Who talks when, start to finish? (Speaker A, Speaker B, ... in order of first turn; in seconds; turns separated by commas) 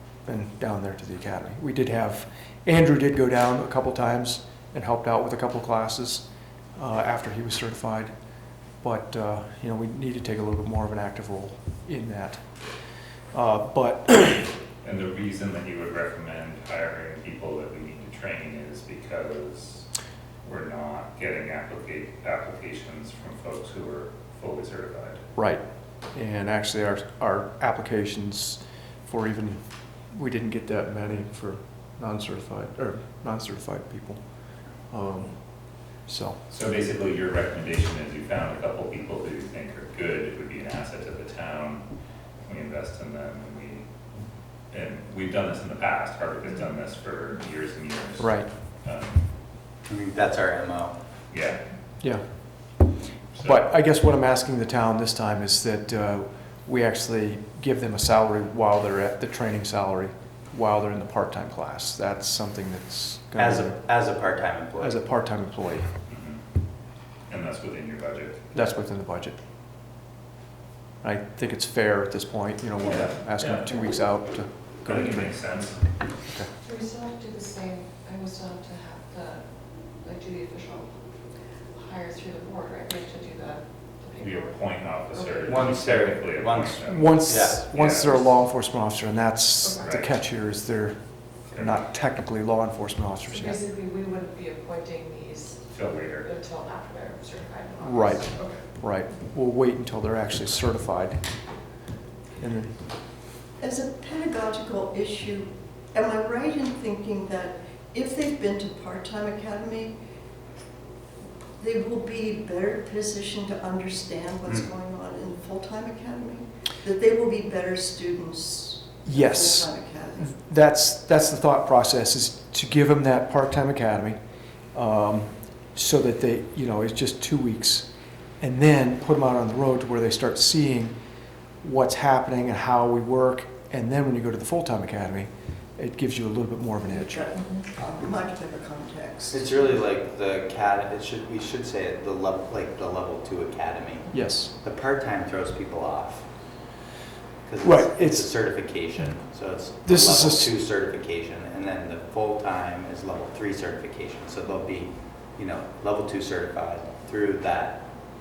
Speaker A: 0.2-8.1, Speaker A: 8.8-12.6, Speaker A: 13.3-14.5, Speaker B: 14.8-19.9, Speaker B: 20.4-25.2, Speaker A: 25.4-25.6, Speaker A: 26.1-34.2, Speaker A: 34.8-36.4, Speaker B: 36.5-41.8, Speaker B: 42.4-43.8, Speaker B: 44.7-49.2, Speaker A: 48.2-48.5, Speaker C: 49.9-50.9, Speaker B: 51.3-51.6, Speaker B: 53.3-53.6, Speaker A: 53.4-63.8, Speaker C: 63.4-65.0, Speaker A: 64.8-65.9, Speaker B: 66.1-66.4, Speaker B: 67.3-68.6, Speaker A: 68.5-69.4, Speaker A: 71.0-75.3, Speaker B: 72.8-73.8, Speaker B: 74.8-75.8, Speaker D: 76.7-79.4, Speaker D: 80.0-80.9, Speaker D: 81.7-84.2, Speaker B: 84.2-88.3, Speaker C: 85.5-87.7, Speaker A: 86.9-93.6, Speaker B: 89.8-90.1, Speaker B: 91.5-91.8, Speaker D: 93.5-95.6, Speaker B: 95.7-96.3, Speaker D: 96.3-98.5, Speaker A: 97.8-101.4, Speaker A: 102.4-102.8, Speaker E: 103.6-110.0, Speaker E: 111.6-120.3, Speaker A: 119.0-124.2, Speaker A: 124.7-131.0, Speaker A: 131.6-137.2, Speaker E: 136.9-139.7, Speaker C: 139.3-146.3, Speaker A: 144.1-144.5, Speaker C: 147.4-157.9, Speaker A: 147.6-148.3, Speaker A: 149.8-150.5